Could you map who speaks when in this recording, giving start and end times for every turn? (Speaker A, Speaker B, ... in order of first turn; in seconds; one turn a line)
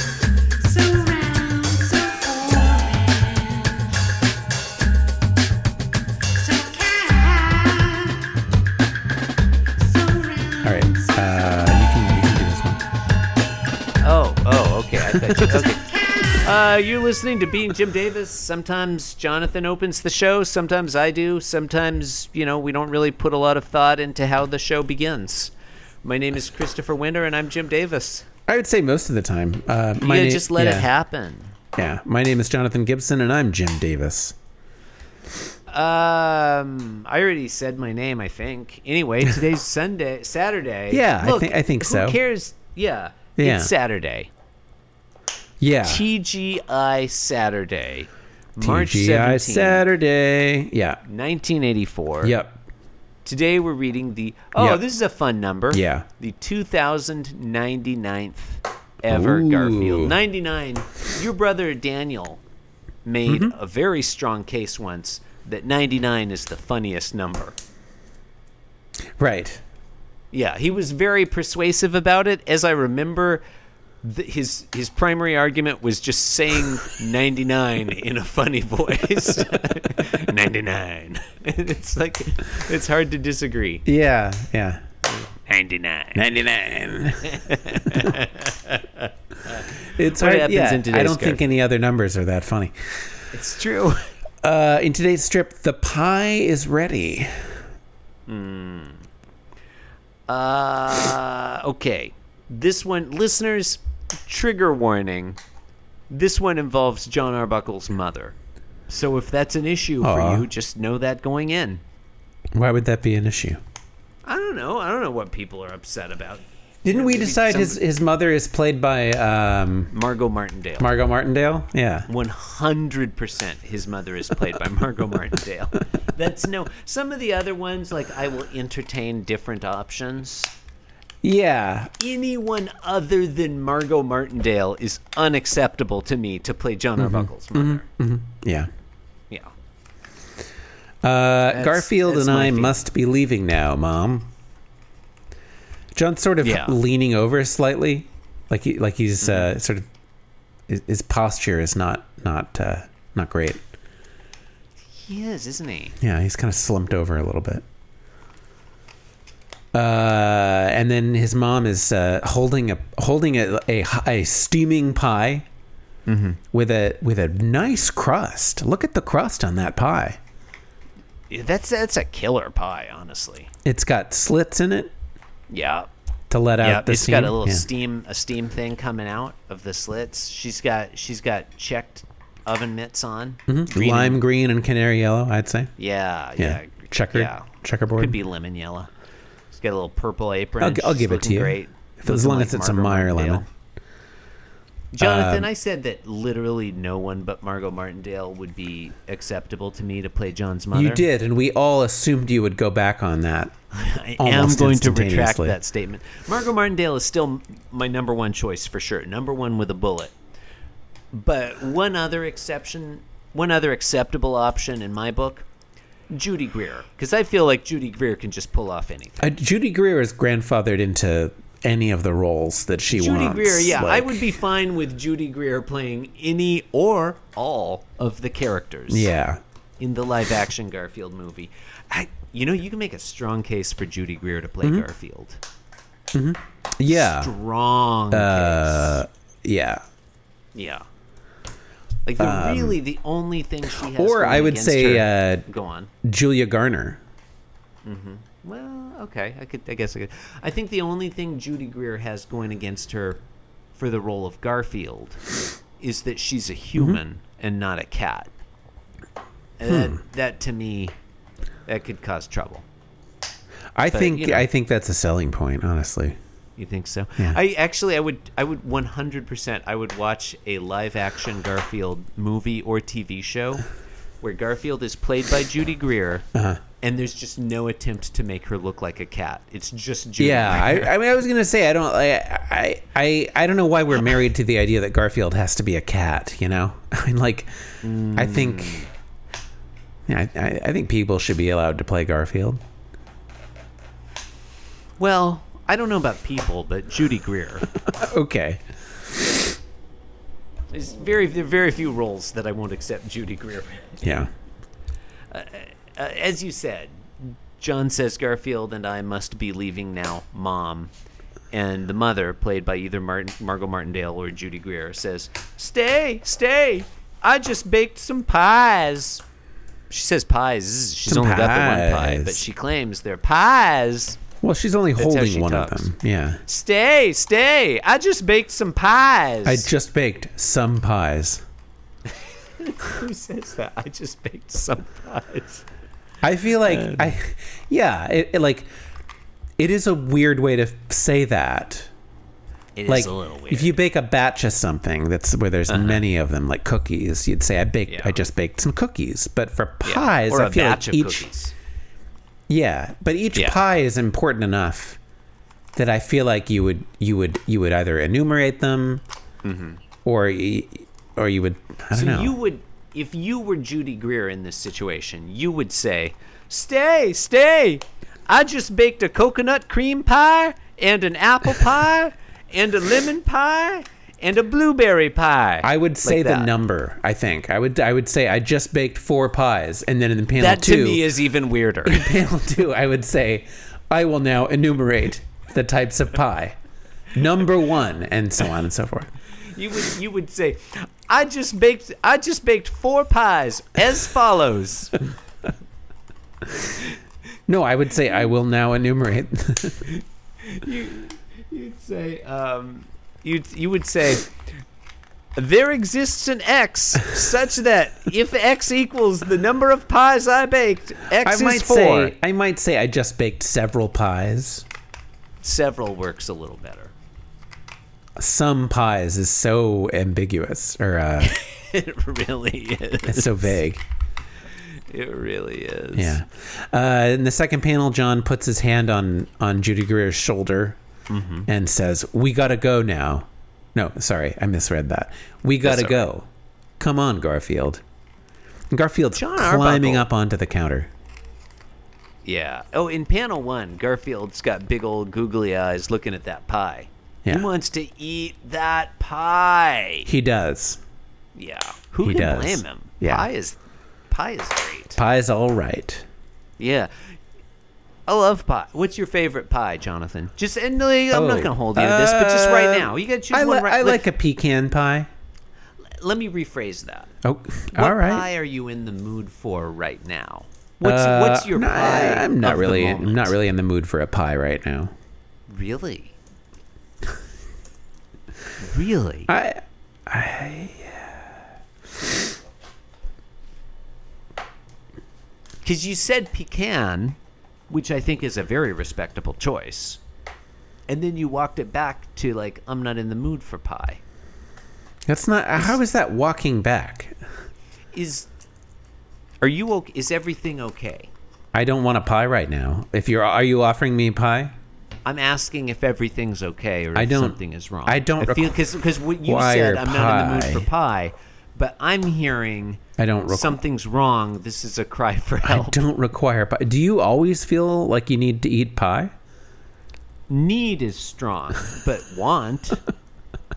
Speaker A: 0.6-3.9
Speaker A: 6.4-8.3
Speaker A: 9.8-10.8
Speaker B: 10.6-12.8
Speaker A: 14.0-25.5
Speaker B: 15.1-15.5
Speaker A: 26.0-28.3
Speaker B: 28.5-30.9
Speaker A: 30.0-31.5
Speaker B: 31.8-34.3
Speaker A: 35.7-44.3
Speaker B: 40.9-42.2
Speaker B: 43.4-43.7
Speaker B: 45.6-46.0
Speaker A: 45.8-49.8
Speaker B: 48.6-51.0
Speaker A: 51.0-52.4
Speaker B: 52.2-52.6
Speaker A: 53.2-62.4
Speaker B: 54.5-54.8
Speaker B: 55.7-56.0
Speaker B: 59.1-60.2
Speaker A: 63.0-67.5
Speaker B: 63.3-63.5
Speaker B: 69.2-69.6
Speaker A: 70.3-73.4
Speaker A: 74.0-83.8
Speaker B: 83.9-84.8
Speaker A: 85.0-86.2
Speaker B: 86.1-87.3
Speaker A: 87.2-91.4
Speaker B: 89.9-92.7
Speaker A: 93.3-94.1
Speaker B: 94.4-97.6
Speaker A: 98.3-99.0
Speaker A: 100.3-105.4
Speaker A: 106.1-108.3
Speaker A: 108.9-111.8
Speaker B: 110.0-110.5
Speaker B: 112.5-113.6
Speaker A: 114.2-117.8
Speaker B: 116.8-119.9
Speaker A: 119.9-120.9
Speaker B: 120.8-122.1
Speaker A: 122.1-130.5
Speaker B: 131.2-131.9
Speaker A: 132.0-137.8
Speaker B: 137.0-138.7
Speaker B: 141.0-144.3
Speaker A: 141.5-142.8
Speaker B: 145.9-149.8
Speaker A: 146.4-146.8
Speaker A: 149.2-149.5
Speaker B: 150.7-153.6
Speaker A: 154.9-156.0
Speaker B: 156.0-157.6
Speaker B: 159.7-165.4
Speaker A: 166.1-166.4
Speaker B: 166.5-170.2
Speaker A: 171.3-173.5
Speaker B: 173.7-174.9
Speaker A: 175.5-175.9
Speaker B: 176.3-177.7
Speaker A: 176.6-184.2
Speaker B: 183.5-185.7
Speaker A: 185.8-188.9
Speaker B: 186.4-188.2
Speaker A: 189.5-193.5
Speaker B: 190.6-193.4
Speaker A: 194.9-201.1
Speaker B: 195.0-195.5
Speaker B: 200.7-203.5
Speaker A: 203.7-210.2
Speaker B: 204.2-205.6
Speaker A: 211.1-215.5
Speaker A: 216.1-219.4
Speaker B: 219.2-224.2
Speaker A: 222.9-229.1
Speaker B: 228.9-229.4
Speaker A: 229.8-235.4
Speaker B: 236.1-237.3
Speaker A: 236.8-239.0
Speaker B: 238.1-239.8
Speaker A: 240.5-240.8
Speaker A: 242.1-245.9
Speaker B: 242.2-242.8
Speaker B: 243.9-245.5
Speaker B: 246.0-247.0
Speaker A: 247.8-253.2
Speaker A: 253.7-255.2
Speaker A: 255.8-258.3
Speaker A: 259.6-260.9
Speaker B: 259.6-260.0
Speaker A: 261.6-262.6
Speaker B: 263.8-266.1
Speaker A: 263.9-264.4
Speaker A: 266.6-273.6
Speaker A: 274.2-276.2
Speaker B: 276.3-276.6
Speaker A: 276.8-280.9
Speaker B: 280.2-287.5
Speaker A: 287.8-288.9
Speaker B: 288.1-288.8
Speaker B: 290.1-292.6
Speaker A: 295.0-297.8
Speaker B: 297.8-298.6
Speaker A: 300.7-304.3
Speaker B: 304.0-304.3
Speaker A: 305.3-310.9
Speaker A: 311.5-319.2
Speaker A: 319.9-324.2
Speaker B: 321.1-322.4
Speaker B: 324.4-326.4
Speaker A: 325.0-325.9
Speaker A: 326.4-329.7
Speaker B: 329.4-331.4
Speaker A: 332.6-335.6
Speaker B: 336.2-338.7
Speaker A: 336.6-337.1
Speaker B: 339.6-341.9
Speaker A: 342.8-343.8
Speaker B: 342.9-351.2
Speaker A: 345.7-346.1
Speaker A: 347.9-348.2
Speaker A: 349.8-351.5
Speaker B: 352.5-355.0
Speaker B: 355.8-359.0
Speaker A: 359.4-359.8
Speaker B: 360.1-362.3
Speaker A: 361.9-376.5
Speaker B: 375.6-381.1
Speaker A: 380.3-382.1
Speaker B: 381.8-386.6
Speaker B: 387.1-389.1
Speaker A: 389.5-395.0
Speaker B: 397.5-399.9
Speaker A: 399.9-404.3
Speaker A: 405.4-412.1
Speaker B: 411.2-414.6
Speaker A: 415.4-416.9
Speaker B: 418.2-421.3
Speaker A: 421.2-423.6
Speaker B: 423.1-423.8
Speaker A: 424.9-426.2
Speaker B: 425.9-430.8
Speaker A: 431.1-431.5
Speaker B: 431.5-436.3
Speaker A: 435.6-436.1
Speaker B: 436.8-437.8
Speaker B: 438.7-440.9
Speaker A: 439.1-440.1
Speaker A: 442.2-450.1
Speaker B: 450.1-450.8
Speaker A: 451.3-453.6
Speaker B: 452.0-453.3
Speaker A: 454.1-455.0
Speaker B: 455.0-456.1
Speaker A: 456.6-456.9
Speaker A: 458.1-464.1
Speaker B: 461.1-465.1
Speaker A: 466.0-467.1
Speaker B: 467.2-468.2
Speaker A: 467.7-473.4
Speaker B: 470.8-474.9
Speaker A: 475.5-476.1
Speaker A: 478.6-479.3
Speaker B: 479.3-481.3
Speaker A: 485.6-487.2
Speaker A: 487.7-490.0
Speaker A: 490.9-494.0
Speaker B: 495.1-497.1
Speaker A: 497.9-498.3
Speaker A: 499.4-501.1
Speaker B: 501.5-504.5
Speaker A: 505.1-515.8
Speaker B: 506.9-508.6
Speaker B: 509.2-510.7
Speaker B: 513.0-513.6
Speaker B: 515.4-519.1
Speaker A: 520.3-522.8